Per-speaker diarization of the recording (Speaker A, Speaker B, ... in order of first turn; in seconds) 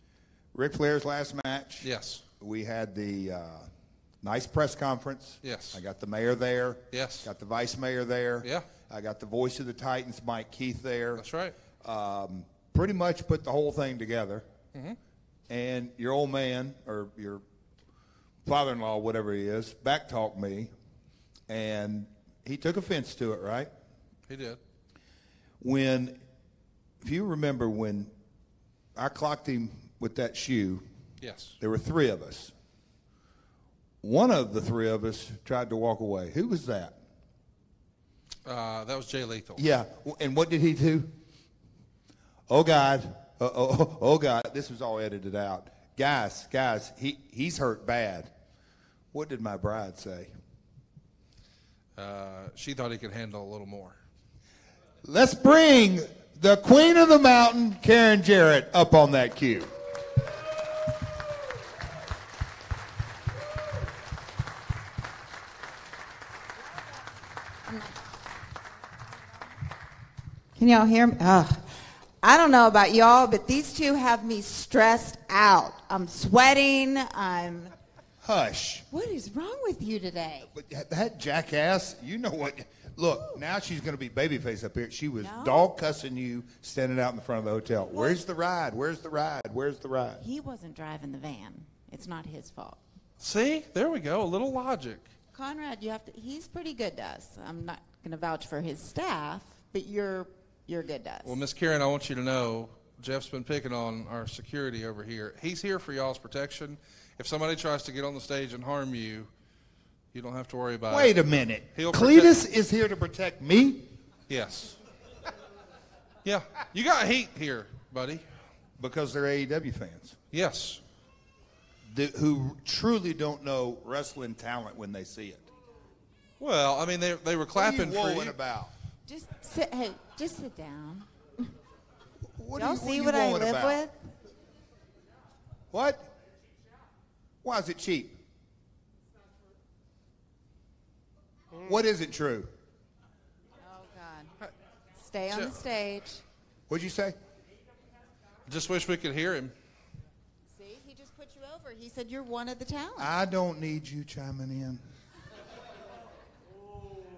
Speaker A: 0.5-1.9, 2.4-3.7, 4.2-11.2, 11.8-14.4, 15.5-17.4, 18.4-20.7, 21.5-23.7, 25.6-26.2, 27.0-28.1, 28.9-30.8, 31.6-32.5, 34.0-37.0, 39.6-41.1, 42.5-48.3, 49.1-50.3, 55.0-59.7, 78.2-78.8, 80.5-90.2, 110.9-113.9, 118.8-120.2, 121.9-125.5, 127.5-128.7, 132.4-133.8, 135.7-136.1, 137.4-138.2, 141.6-142.5, 146.7-147.2, 153.0-154.8
Speaker B: 1.8-2.2, 5.4-5.8, 6.9-7.3, 11.2-11.5, 24.3-24.6, 31.2-31.6, 38.4-39.6, 52.0-54.0, 93.2-95.1, 101.2-109.3, 110.1-111.2, 111.7-112.3, 114.3-114.8, 116.2-118.2, 120.3-120.8, 126.4-128.3, 148.5-149.5
Speaker C: 67.7-68.0, 70.5-77.7, 78.9-80.5, 85.2-85.7, 90.2-92.8, 95.3-101.3, 129.1-131.5, 132.5-134.0, 143.6-144.3, 145.0-146.2, 150.5-153.1